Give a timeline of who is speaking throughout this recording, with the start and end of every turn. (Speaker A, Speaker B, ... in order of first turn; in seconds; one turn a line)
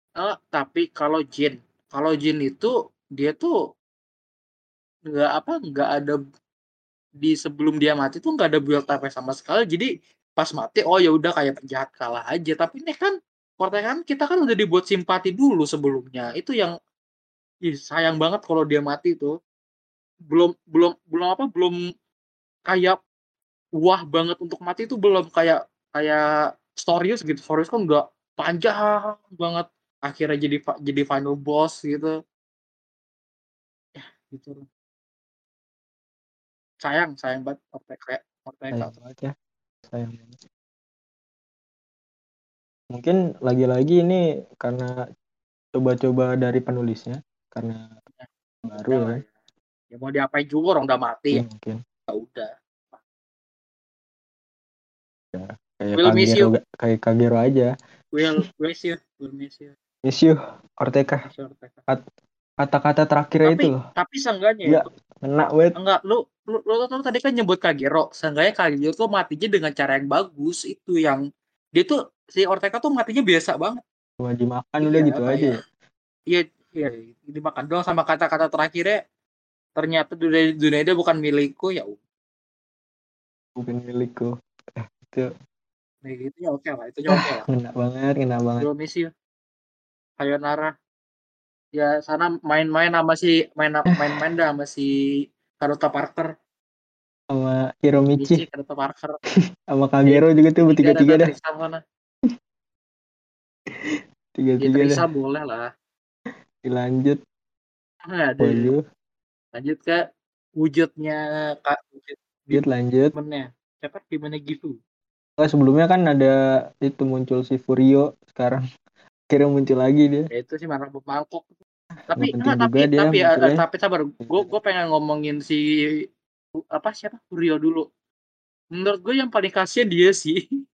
Speaker A: 0.2-3.5
Speaker A: 5.1-6.2
Speaker A: 7.2-16.7
Speaker A: 17.7-19.3
Speaker A: 20.3-21.8
Speaker A: 22.7-23.0
Speaker A: 23.8-26.2
Speaker A: 26.8-32.1
Speaker A: 34.0-34.6
Speaker A: 36.8-38.9
Speaker B: 38.7-39.3
Speaker B: 39.9-40.4
Speaker B: 42.9-44.9
Speaker B: 45.8-47.8
Speaker A: 48.1-49.3
Speaker B: 48.7-49.2
Speaker A: 49.9-51.4
Speaker B: 51.3-51.8
Speaker A: 52.1-53.0
Speaker B: 55.3-57.7
Speaker A: 56.0-56.5
Speaker A: 58.1-59.7
Speaker B: 60.0-61.2
Speaker A: 61.2-61.8
Speaker B: 62.6-63.8
Speaker A: 63.5-64.9
Speaker B: 64.7-65.8
Speaker A: 65.8-71.2
Speaker A: 71.8-73.8
Speaker B: 74.2-75.6
Speaker A: 74.8-75.6
Speaker A: 76.3-79.0
Speaker A: 79.8-82.0
Speaker B: 83.6-84.3
Speaker B: 85.0-85.3
Speaker A: 86.0-87.5
Speaker B: 87.1-88.7
Speaker A: 88.6-89.1
Speaker A: 90.2-90.7
Speaker A: 91.8-94.9
Speaker B: 93.9-94.2
Speaker A: 95.6-96.3
Speaker B: 97.3-98.4
Speaker A: 98.2-99.2
Speaker B: 99.7-101.3
Speaker A: 100.1-101.8
Speaker B: 103.9-105.0
Speaker A: 104.6-105.7
Speaker B: 106.6-107.2
Speaker A: 108.1-108.7
Speaker B: 108.4-108.8
Speaker A: 109.5-110.0
Speaker A: 110.6-112.6
Speaker B: 112.5-113.1
Speaker A: 113.1-114.8
Speaker B: 115.4-118.6
Speaker B: 119.3-120.3
Speaker A: 120.3-121.5
Speaker A: 122.1-125.6
Speaker B: 122.2-123.6
Speaker B: 124.2-124.5
Speaker A: 126.8-127.8
Speaker A: 128.8-130.4